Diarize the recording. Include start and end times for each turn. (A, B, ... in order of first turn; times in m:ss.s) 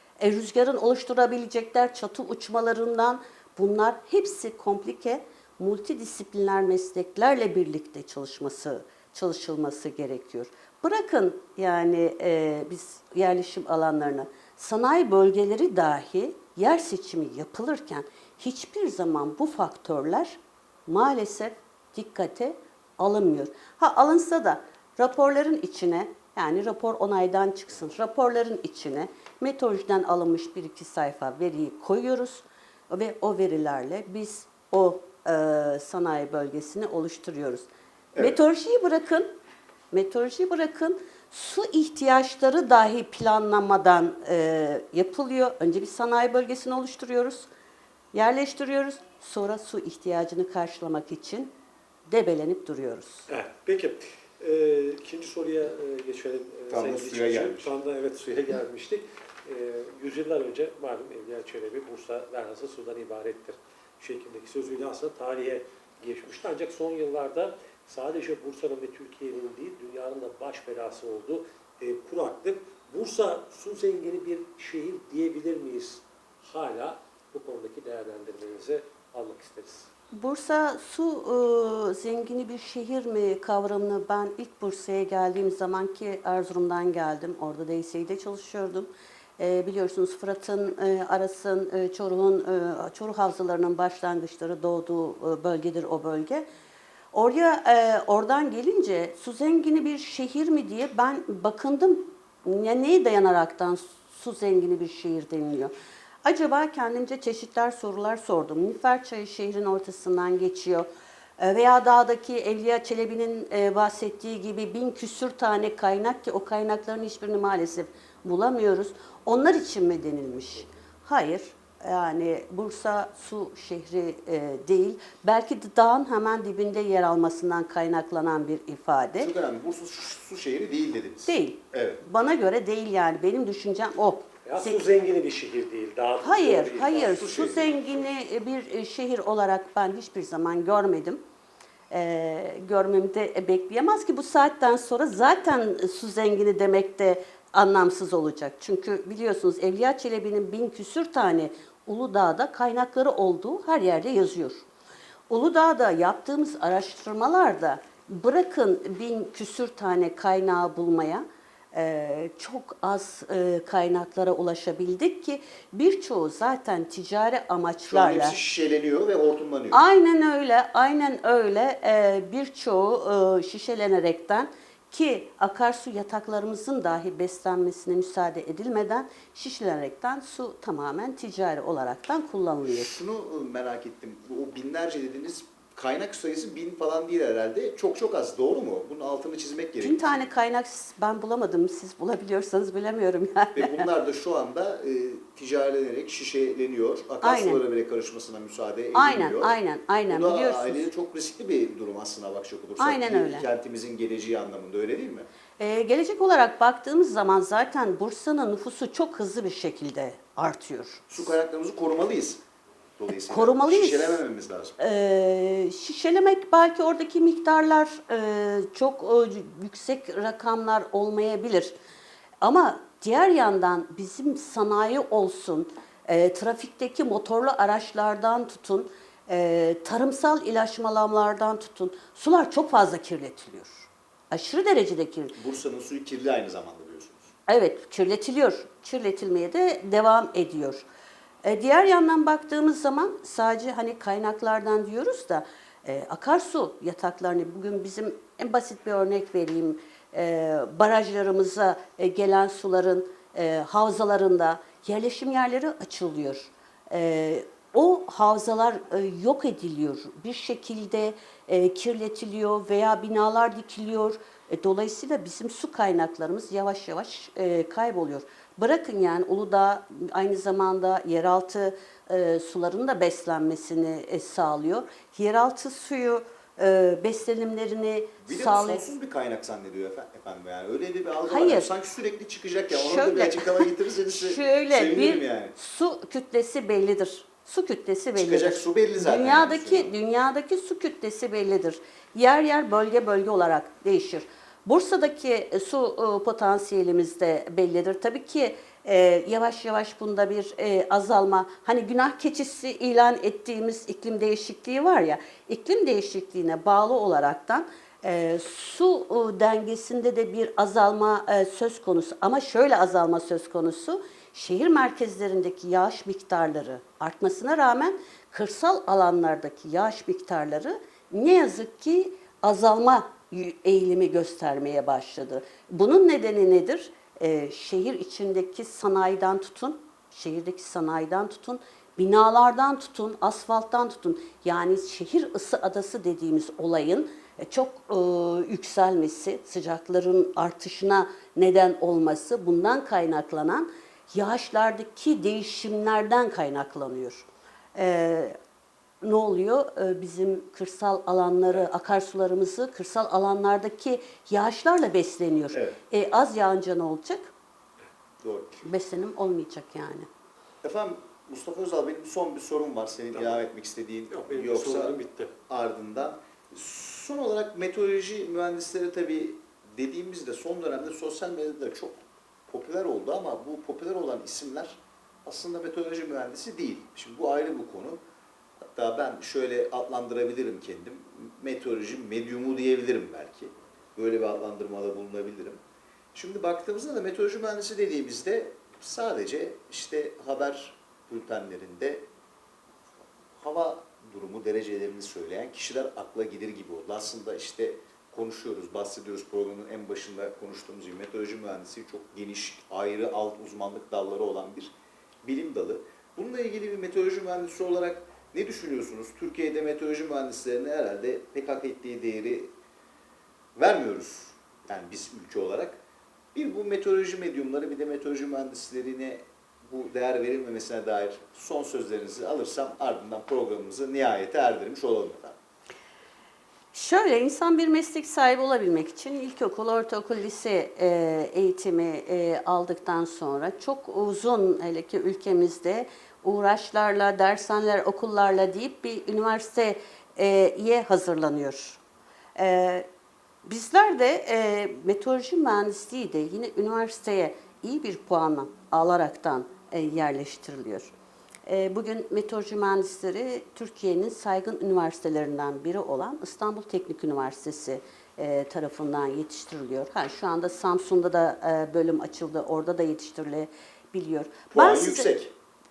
0:00.2-0:39.3 A
0:39.9-0:47.5 A
0:48.1-0:51.5 A
0:52.1-0:53.3 A
0:53.3-1:19.9 B
0:56.7-0:57.7 C
1:20.1-1:36.5 A
1:37.1-1:45.7 A
1:46.2-1:50.9 A
1:51.4-2:09.3 A
2:09.2-2:12.0 C
2:11.3-2:14.8 A
2:14.5-2:17.2 B
2:16.2-2:21.2 A
2:17.0-2:17.8 C
2:21.9-2:34.7 A
2:35.3-2:48.4 A
2:47.9-2:49.8 C
2:49.7-3:03.0 A
3:02.6-3:10.2 C
3:09.8-3:13.9 A
3:13.6-3:19.6 C
3:17.2-3:17.6 A
3:18.9-3:20.9 A
3:20.1-3:25.3 C
3:22.8-3:23.5 A
3:25.6-3:31.3 A
3:31.1-3:32.4 C
3:33.0-3:34.8 C
3:33.3-3:34.2 A
3:34.8-3:41.7 A
3:42.4-3:55.4 A
3:55.4-3:57.3 C
3:57.5-4:00.9 A
4:01.4-4:38.9 A
4:38.2-4:45.6 C
4:41.2-4:41.7 A
4:42.7-5:48.4 A
4:48.2-4:49.9 C
5:49.0-5:57.3 A
5:58.2-5:58.6 C
5:58.6-6:00.1 A
6:00.6-6:18.0 C
6:03.1-6:03.4 B
6:04.1-6:05.3 B
6:18.7-6:25.6 C
6:26.2-6:32.1 C
6:33.3-6:52.5 C
6:53.6-6:55.8 C
6:56.3-7:05.4 C
7:06.7-7:21.8 A
7:22.4-7:22.9 A
7:23.4-7:30.9 A
7:31.5-7:45.2 A
7:44.5-7:45.3 C